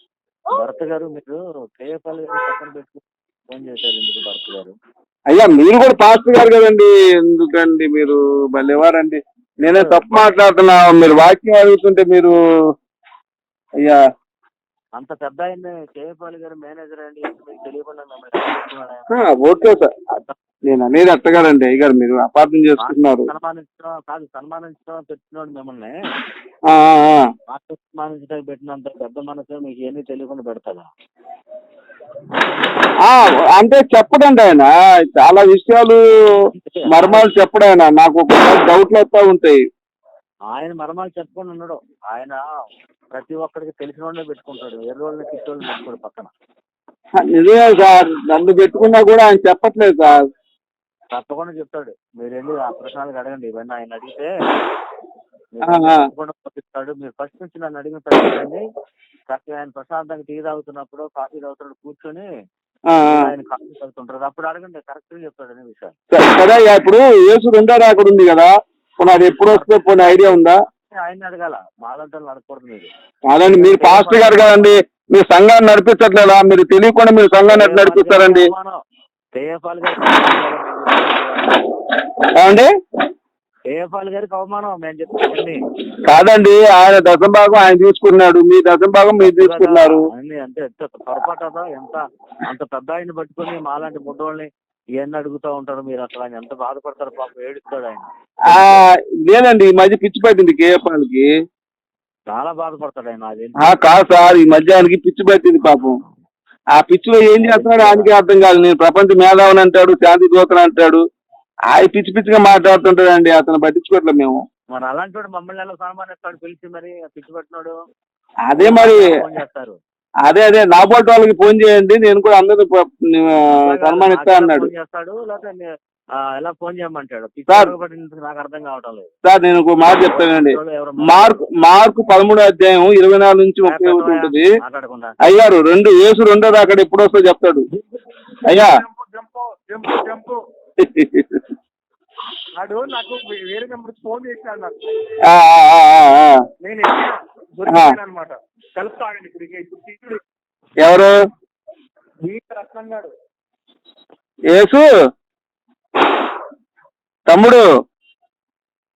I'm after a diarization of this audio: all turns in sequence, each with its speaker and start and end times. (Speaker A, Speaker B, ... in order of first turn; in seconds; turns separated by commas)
Speaker A: 0.5-4.8, Speaker B: 5.3-12.3, Speaker A: 9.7-10.2, Speaker A: 14.9-19.2, Speaker B: 19.1-19.9, Speaker B: 20.7-23.3, Speaker A: 22.8-26.0, Speaker B: 26.7-27.3, Speaker A: 27.5-30.9, Speaker B: 33.0-36.4, Speaker A: 36.4-37.3, Speaker B: 36.9-39.6, Speaker A: 40.5-42.4, Speaker A: 43.1-46.3, Speaker B: 47.2-50.2, Speaker A: 51.1-54.3, Speaker A: 55.5-58.6, Speaker B: 55.6-56.1, Speaker A: 59.3-62.3, Speaker B: 62.9-63.3, Speaker A: 63.0-66.0, Speaker B: 66.1-70.6, Speaker A: 69.5-69.8, Speaker A: 70.9-74.7, Speaker B: 73.3-78.5, Speaker A: 77.5-78.8, Speaker A: 79.3-81.8, Speaker B: 82.3-82.7, Speaker A: 83.7-85.7, Speaker B: 86.1-90.0, Speaker A: 89.2-98.8, Speaker B: 98.5-101.3, Speaker A: 102.3-104.2, Speaker B: 103.6-106.0, Speaker B: 106.8-111.0, Speaker A: 107.3-108.1, Speaker B: 111.7-114.4, Speaker A: 114.7-117.8, Speaker B: 118.5-119.1, Speaker A: 118.6-119.8, Speaker B: 120.2-124.7, Speaker A: 123.5-129.1, Speaker B: 129.2-134.5, Speaker A: 130.1-131.4, Speaker A: 133.7-135.2, Speaker B: 135.2-137.7, Speaker A: 137.7-138.0, Speaker B: 138.5-138.8, Speaker C: 138.5-140.4, Speaker B: 140.8-141.4, Speaker C: 142.5-144.8, Speaker B: 145.2-146.4, Speaker C: 146.6-150.2, Speaker B: 147.7-147.9, Speaker B: 150.8-151.1, Speaker C: 152.2-153.1, Speaker B: 154.5-154.9, Speaker B: 157.3-157.6